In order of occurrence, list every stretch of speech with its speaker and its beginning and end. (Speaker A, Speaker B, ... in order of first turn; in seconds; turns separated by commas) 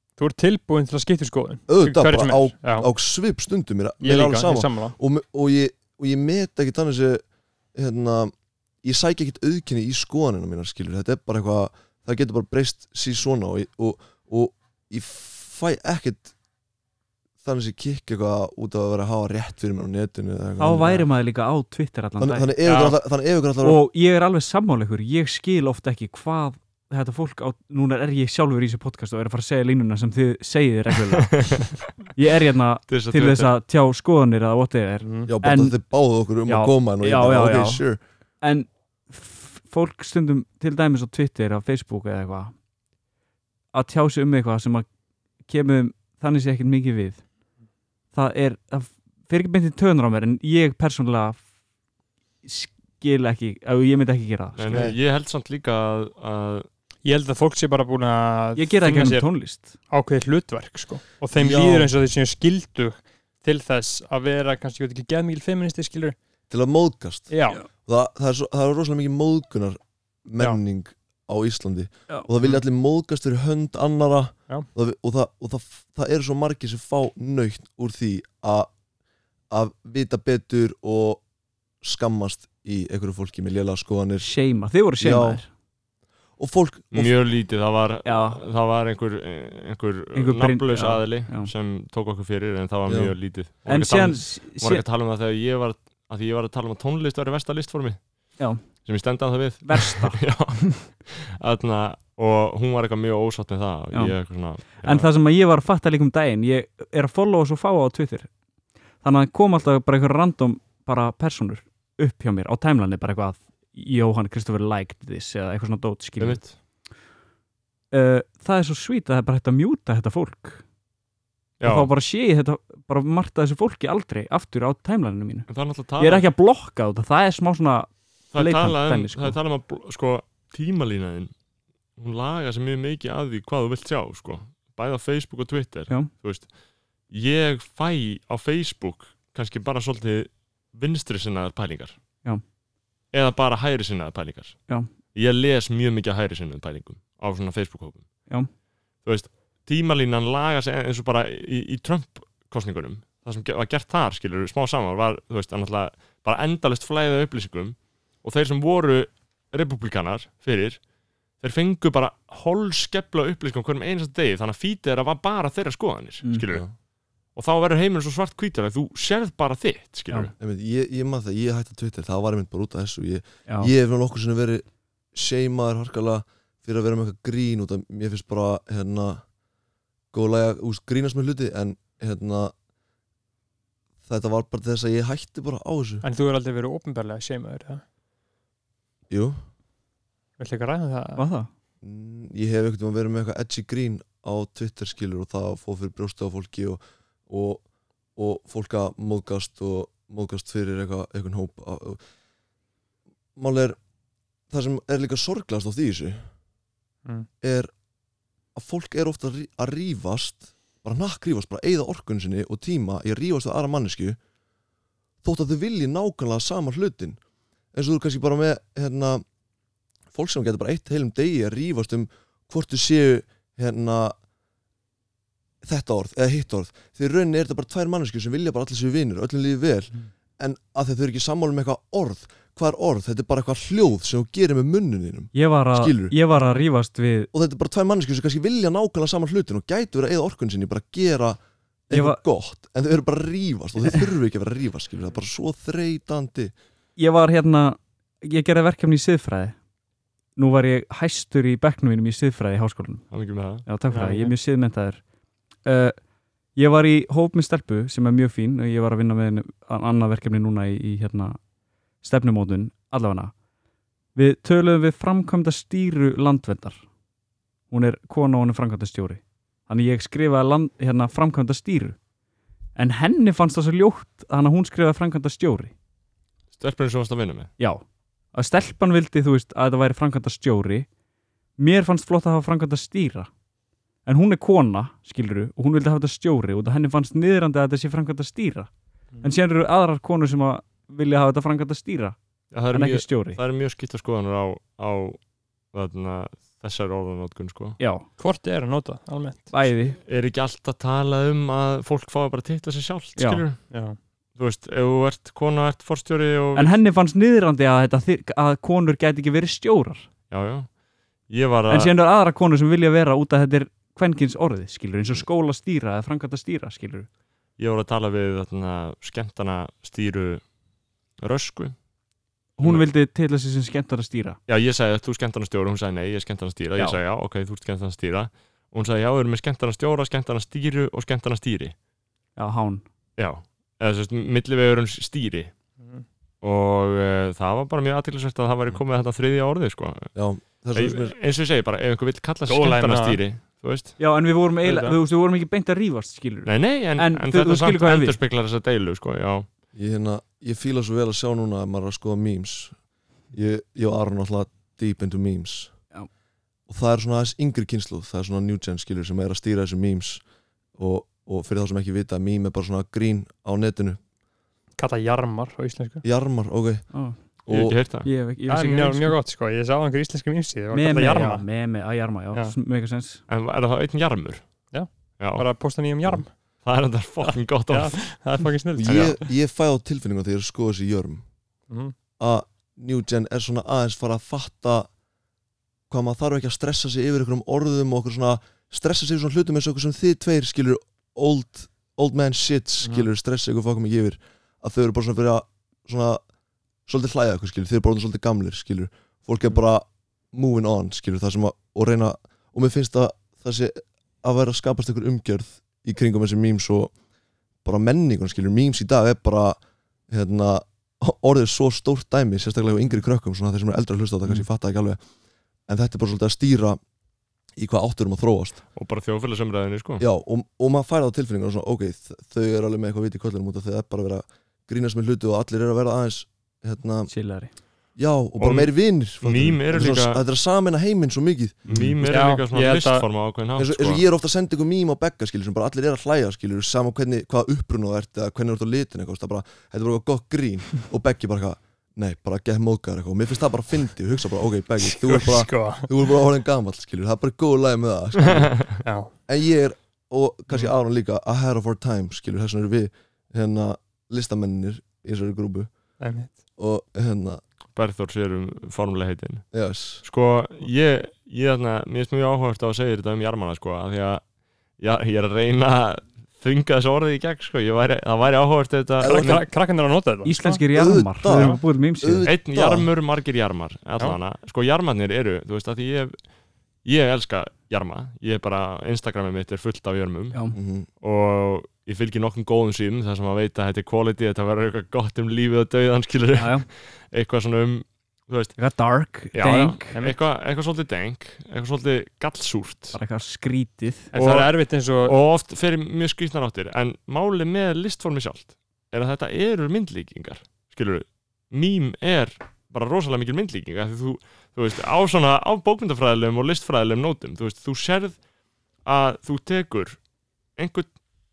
Speaker A: 0.2-2.9, Speaker B: 1.7-7.2, Speaker A: 4.0-5.0, Speaker B: 7.7-16.3, Speaker B: 17.4-21.1, Speaker C: 20.6-22.5, Speaker B: 22.2-23.8, Speaker A: 22.6-23.0, Speaker C: 23.6-31.6, Speaker D: 31.2-31.7, Speaker C: 32.1-35.8, Speaker D: 32.9-33.5, Speaker A: 35.0-35.3, Speaker B: 35.3-38.0, Speaker C: 36.5-37.8, Speaker C: 38.4-42.5, Speaker C: 43.7-44.9, Speaker C: 45.5-47.2, Speaker C: 48.1-51.4, Speaker C: 52.4-54.9, Speaker D: 54.6-56.7, Speaker B: 54.7-55.0, Speaker A: 57.0-59.3, Speaker C: 58.5-59.7, Speaker A: 59.9-66.2, Speaker B: 61.3-61.9, Speaker B: 66.5-67.3, Speaker A: 67.3-67.6, Speaker B: 67.8-78.7, Speaker B: 79.5-81.2, Speaker B: 81.8-84.3, Speaker C: 84.2-85.5, Speaker B: 85.0-85.4, Speaker B: 86.4-87.1, Speaker D: 86.9-98.0, Speaker C: 88.0-88.4, Speaker C: 90.1-91.5, Speaker B: 92.9-93.1, Speaker C: 93.7-94.8, Speaker D: 98.8-105.1, Speaker C: 99.6-100.2, Speaker C: 104.7-108.3, Speaker C: 109.0-116.4, Speaker D: 116.2-116.5, Speaker C: 117.9-120.6, Speaker D: 121.6-121.9, Speaker C: 121.6-129.4, Speaker D: 125.5-126.2, Speaker D: 128.3-131.3, Speaker D: 132.0-136.5, Speaker D: 137.1-141.9, Speaker D: 143.1-144.6, Speaker D: 145.1-148.1, Speaker D: 149.0-160.8, Speaker D: 161.4-166.6, Speaker D: 167.3-170.3, Speaker B: 170.4-179.2, Speaker C: 173.5-173.7, Speaker B: 180.1-182.5, Speaker B: 184.1-186.0, Speaker A: 186.0-187.8, Speaker B: 189.1-189.4, Speaker A: 190.4-191.2, Speaker C: 191.2-191.5, Speaker B: 191.8-197.6, Speaker B: 198.2-202.0, Speaker B: 203.3-203.8, Speaker B: 204.5-206.2, Speaker B: 207.4-207.7, Speaker B: 208.5-214.2, Speaker B: 215.2-217.2, Speaker B: 217.7-219.2, Speaker B: 220.1-224.2, Speaker B: 225.6-236.1, Speaker C: 235.3-237.3, Speaker B: 237.3-246.5, Speaker C: 241.9-242.2, Speaker C: 247.0-249.5, Speaker C: 250.3-253.0, Speaker D: 253.1-253.7, Speaker C: 253.6-255.0, Speaker A: 253.9-254.3, Speaker C: 255.6-255.9, Speaker C: 256.6-261.4, Speaker C: 262.0-263.3, Speaker C: 264.1-266.8, Speaker C: 267.7-272.0, Speaker C: 272.8-275.7, Speaker D: 276.5-277.5, Speaker C: 278.3-280.9, Speaker C: 281.6-283.3, Speaker C: 284.1-288.7, Speaker C: 289.2-292.1, Speaker D: 292.5-295.2, Speaker C: 292.7-293.4, Speaker D: 295.7-297.8, Speaker C: 297.8-298.1, Speaker A: 298.2-299.5, Speaker C: 299.5-300.0, Speaker D: 300.1-303.6, Speaker C: 303.2-303.4, Speaker A: 303.7-304.0, Speaker D: 304.4-306.7, Speaker C: 306.6-310.1, Speaker D: 310.3-310.7, Speaker D: 311.3-311.9, Speaker C: 311.7-317.1, Speaker D: 317.6-320.4, Speaker D: 321.2-321.7, Speaker C: 322.6-324.4, Speaker D: 324.5-331.7, Speaker C: 332.4-332.8, Speaker D: 333.2-335.5, Speaker A: 335.8-336.0, Speaker D: 336.4-340.1, Speaker B: 340.1-341.1, Speaker D: 340.7-344.0, Speaker A: 342.5-343.2, Speaker C: 344.0-348.2, Speaker A: 344.6-345.0, Speaker D: 346.4-349.4, Speaker B: 349.7-352.8, Speaker B: 353.3-355.7, Speaker B: 356.7-360.2, Speaker B: 360.8-364.0, Speaker A: 364.8-366.0, Speaker B: 366.0-366.9, Speaker B: 367.4-367.8, Speaker D: 367.5-368.1, Speaker C: 368.0-369.2, Speaker A: 368.5-371.5, Speaker C: 370.7-373.2, Speaker D: 373.3-375.5, Speaker A: 374.7-376.3, Speaker D: 376.6-378.1, Speaker A: 377.2-379.2, Speaker B: 378.8-381.2, Speaker D: 378.9-379.2, Speaker A: 381.7-381.9, Speaker B: 382.2-384.9, Speaker B: 385.9-396.2, Speaker B: 396.9-406.9, Speaker B: 407.6-409.6, Speaker B: 410.1-415.0, Speaker B: 415.7-416.8, Speaker B: 417.6-418.6, Speaker D: 418.7-420.0, Speaker B: 420.0-427.1, Speaker C: 427.1-427.5, Speaker B: 428.0-432.2, Speaker D: 428.4-430.2, Speaker D: 431.7-434.0, Speaker A: 432.1-433.0, Speaker B: 433.6-448.7, Speaker A: 444.8-445.9, Speaker D: 448.3-448.7, Speaker A: 448.8-449.1, Speaker B: 449.3-455.7, Speaker A: 456.0-456.3, Speaker B: 456.6-457.4, Speaker D: 457.7-459.4, Speaker B: 459.5-460.0, Speaker D: 460.0-464.2, Speaker D: 464.8-469.4, Speaker B: 469.0-469.4, Speaker A: 469.0-470.6, Speaker C: 470.2-472.3, Speaker B: 470.7-472.9, Speaker A: 471.2-471.6, Speaker D: 472.2-476.2, Speaker D: 476.8-480.4, Speaker B: 480.5-480.9, Speaker D: 481.0-488.5, Speaker C: 486.4-486.6, Speaker C: 488.6-490.0, Speaker A: 489.3-490.1, Speaker D: 489.4-493.0, Speaker C: 492.9-494.1, Speaker A: 494.1-495.1, Speaker D: 494.1-494.5, Speaker D: 495.0-508.2, Speaker D: 508.8-510.0, Speaker D: 510.6-510.9